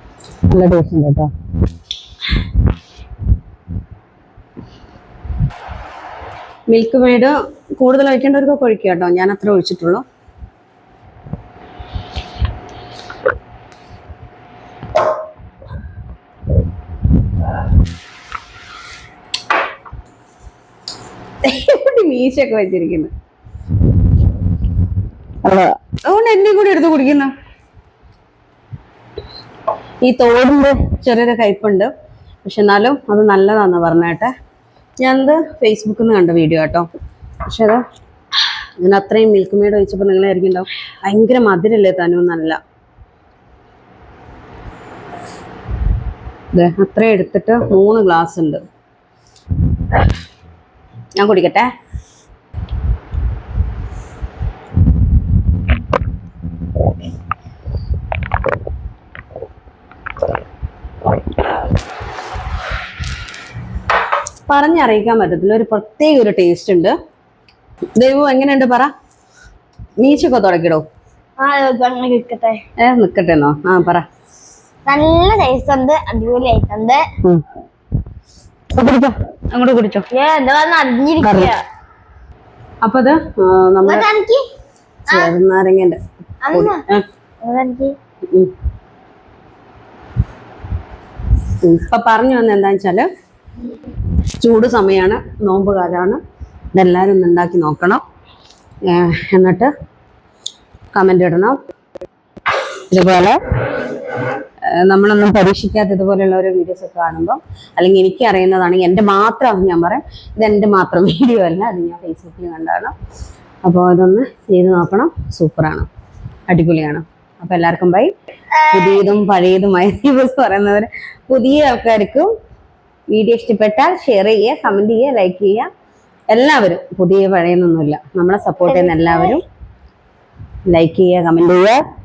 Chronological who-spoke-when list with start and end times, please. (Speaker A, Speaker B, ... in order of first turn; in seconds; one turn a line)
Speaker A: 0.5-1.3
Speaker A: 6.7-10.1
Speaker A: 21.4-23.1
Speaker A: 25.4-27.3
Speaker A: 30.0-31.9
Speaker A: 32.4-34.3
Speaker A: 35.0-36.9
Speaker A: 37.5-37.8
Speaker A: 38.8-42.6
Speaker A: 46.5-48.6
Speaker A: 51.2-51.7
Speaker A: 64.5-67.0
Speaker A: 68.0-68.9
Speaker A: 70.0-70.8
Speaker B: 71.4-72.6
Speaker A: 72.8-74.1
Speaker B: 74.9-77.0
Speaker A: 78.8-80.1
Speaker B: 80.1-81.6
Speaker A: 81.2-81.5
Speaker A: 82.8-84.1
Speaker B: 83.8-84.5
Speaker A: 85.1-87.0
Speaker B: 86.5-86.8
Speaker B: 87.4-88.0
Speaker A: 91.6-93.1
Speaker A: 94.4-96.2
Speaker A: 96.7-98.0
Speaker A: 98.9-99.7
Speaker A: 100.9-101.6
Speaker A: 102.9-103.4
Speaker A: 104.7-113.0
Speaker A: 113.6-115.9
Speaker A: 116.5-118.1
Speaker B: 118.5-119.1
Speaker A: 118.7-122.3
Speaker A: 123.1-125.7
Speaker A: 126.3-129.4
Speaker B: 128.7-129.4
Speaker A: 130.7-131.8